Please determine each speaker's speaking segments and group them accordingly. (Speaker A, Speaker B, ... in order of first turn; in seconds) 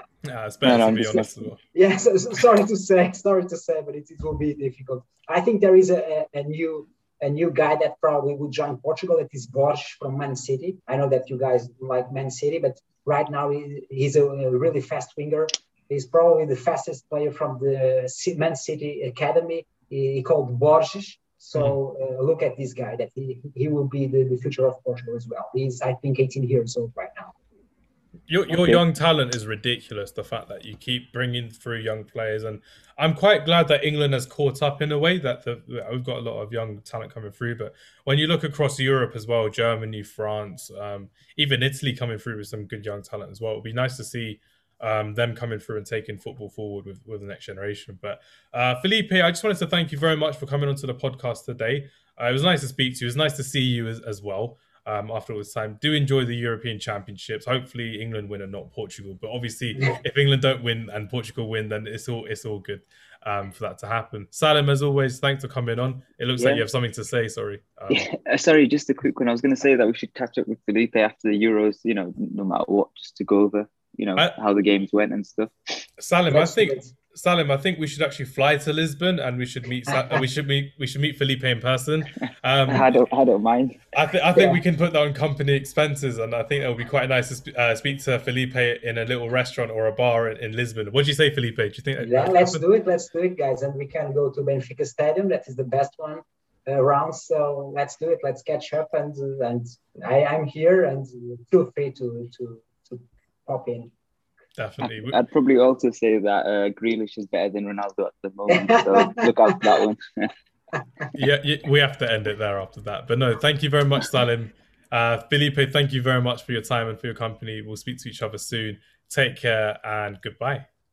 Speaker A: 0.2-1.6, 28.3-68.1, 76.0-82.9, 83.9-92.6, 104.6-105.2, 111.1-120.7
Speaker B: 0.6-1.5, 66.4-66.7, 67.9-75.8, 82.7-83.8, 104.9-110.3
Speaker C: 1.7-27.3, 76.3-76.9, 79.9-80.2, 84.3-84.6, 92.0-103.9, 108.5-109.8, 110.8-111.0